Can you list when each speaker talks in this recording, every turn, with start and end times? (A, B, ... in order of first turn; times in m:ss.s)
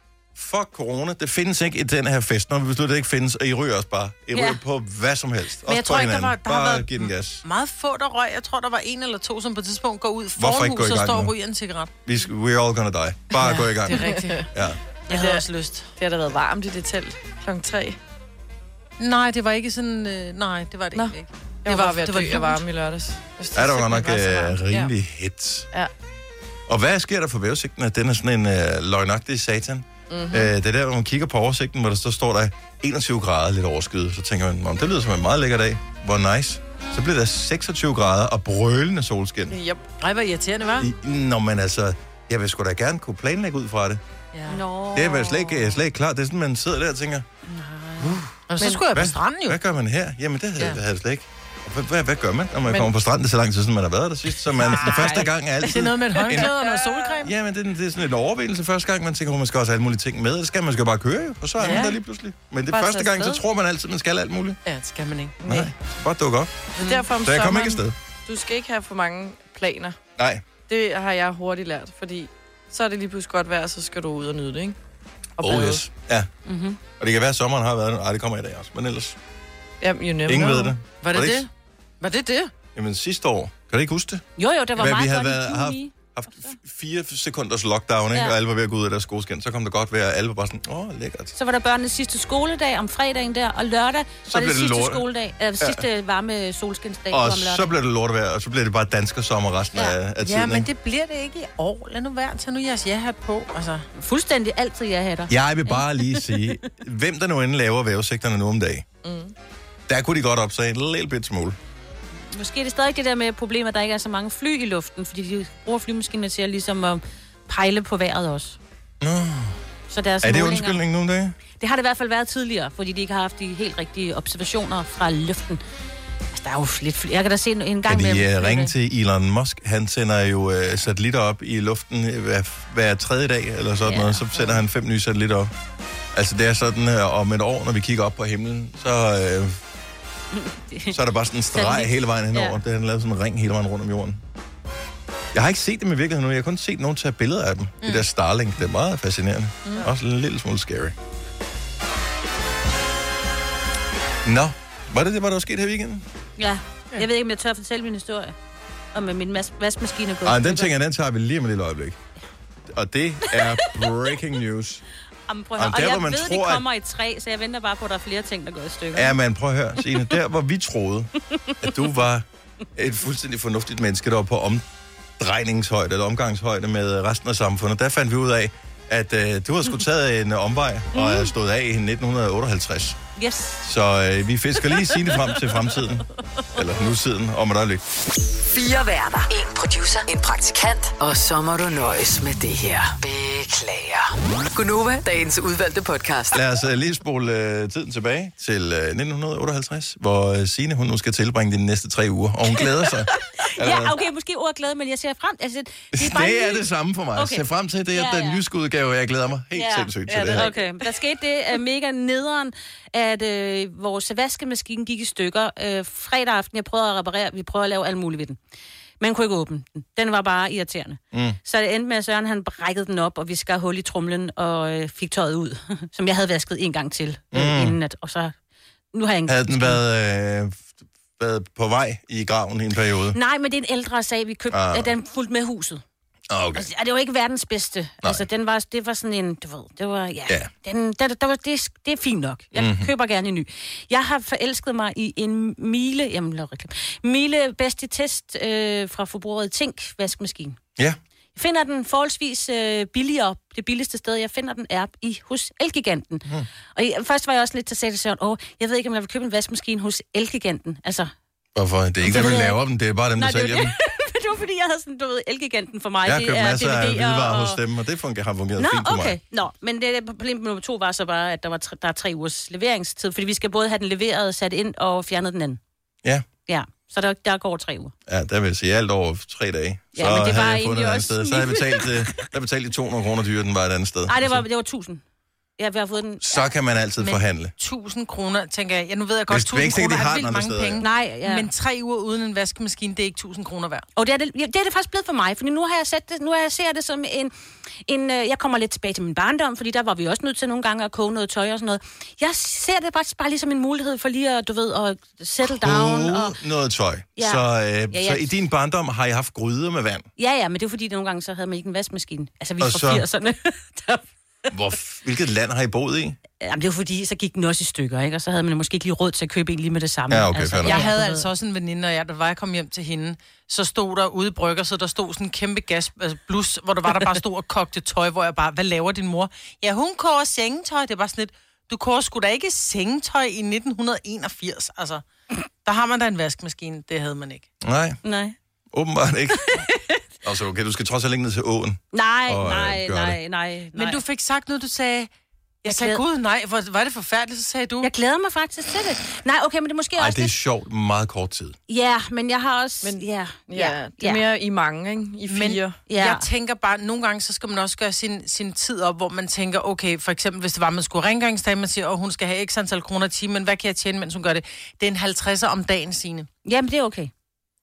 0:00.3-0:07.4 A
0:05.6-0:11.9 B
0:10.4-0:11.3 A
0:12.0-0:14.8 A
0:13.4-0:14.5 B
0:14.0-0:14.4 C
0:15.1-0:15.9 B
0:15.1-0:15.4 C
0:16.0-0:18.0 C
0:19.0-0:22.6 B
0:20.9-0:24.9 C
0:23.5-0:25.7 A
0:26.7-0:39.6 A
0:30.1-0:30.5 C
0:39.5-0:39.8 C
0:40.0-0:40.9 B
0:40.8-0:44.0 A
0:44.3-0:44.6 B
0:44.5-0:45.8 D
0:44.9-0:47.2 A
0:47.5-0:48.2 D
0:48.0-0:56.5 A
0:48.5-0:49.6 B
0:48.6-0:48.8 C
0:52.7-0:52.9 C
0:54.6-0:57.3 B
0:54.7-0:55.2 D
0:56.4-0:57.1 C
0:57.2-1:04.6 A
1:01.6-1:02.0 B
1:01.6-1:01.9 C
1:02.7-1:03.4 C
1:04.6-1:05.4 B
1:05.4-1:05.7 C
1:05.4-1:06.7 A
1:06.8-1:07.1 B
1:06.8-1:10.0 C
1:07.2-1:08.0 A
1:10.2-1:10.4 A
1:10.7-1:14.8 C
1:15.4-1:15.8 C
1:15.4-1:16.3 A
1:16.4-1:16.8 D
1:17.0-1:19.2 A
1:19.8-1:20.8 C
1:20.2-1:21.4 A
1:21.0-1:21.5 B
1:22.0-1:22.5 B
1:22.7-1:24.2 A
1:24.4-1:26.6 D
1:24.8-1:31.3 A
1:31.3-1:37.7 D
1:34.3-1:35.0 A
1:37.1-1:40.7 A
1:40.2-1:43.8 B
1:43.9-1:46.4 D
1:45.3-1:48.9 A
1:49.0-1:49.3 C
1:49.9-1:51.6 A
1:52.3-1:58.6 D
1:59.0-1:59.6 A
1:59.9-2:00.8 D
2:00.2-2:01.3 A
2:01.6-2:05.6 D
2:06.3-2:08.7 D
2:07.9-2:15.5 A
2:13.8-2:14.5 D
2:16.1-2:19.6 A
2:20.3-2:21.0 D
2:20.9-2:24.2 A
2:21.5-2:22.6 D
2:25.3-2:30.9 A
2:34.2-2:36.0 A
2:36.4-2:38.3 D
2:38.9-2:40.7 D
2:40.2-2:42.0 A
2:42.7-2:44.8 A
2:43.3-2:43.8 D
2:45.3-2:49.1 D
2:45.6-2:46.6 A
2:48.9-2:51.1 A
2:51.6-2:54.6 A
2:55.2-3:03.0 A
3:00.9-3:01.3 D
3:03.2-3:03.6 D
3:03.6-3:07.8 A
3:04.7-3:05.4 D
3:08.5-3:16.4 E
3:16.3-3:24.0 A
3:23.4-3:26.6 D
3:25.9-3:30.5 A
3:27.2-3:28.4 D
3:29.5-3:38.4 D
3:39.0-3:48.3 D
3:41.1-3:41.4 A
3:47.3-3:47.8 A
3:48.9-3:49.8 D
3:49.3-3:53.2 A
3:53.1-3:55.8 D
3:54.5-3:54.9 A
3:56.3-3:56.7 A
3:56.5-4:10.6 D
4:02.5-4:02.9 A
4:11.3-4:21.1 D
4:21.5-4:23.7 A
4:22.0-4:22.6 D
4:23.2-4:27.6 D
4:26.0-4:29.2 A
4:28.6-4:35.6 D
4:36.5-4:37.9 D
4:38.1-4:44.4 A
4:39.9-4:42.2 D
4:44.1-4:45.0 D
4:45.6-4:46.5 D
4:46.2-4:47.5 A
4:47.0-4:53.8 B
4:49.3-4:50.8 A
4:50.8-4:51.5 D
4:54.0-4:57.3 D
4:57.8-5:06.4 D
5:05.4-5:10.1 A
5:07.2-5:08.3 D
5:10.2-5:14.0 D
5:12.6-5:13.0 A
5:14.5-5:16.2 A
5:16.4-5:21.3 D
5:20.1-5:20.9 A
5:20.6-5:35.0 B
5:35.6-5:37.5 B
5:37.6-5:38.0 A
5:38.0-5:38.4 D
5:38.7-5:39.6 A
5:39.4-5:40.0 D
5:40.2-5:43.2 A
5:41.9-5:44.0 D
5:43.8-5:45.1 B
5:45.6-5:47.9 B
5:45.6-5:46.0 D
5:47.8-5:50.3 D
5:50.0-5:51.6 A
5:51.7-5:54.2 D
5:52.8-5:55.8 C
5:55.2-6:06.3 B
5:55.9-5:56.2 D
6:06.4-6:07.1 D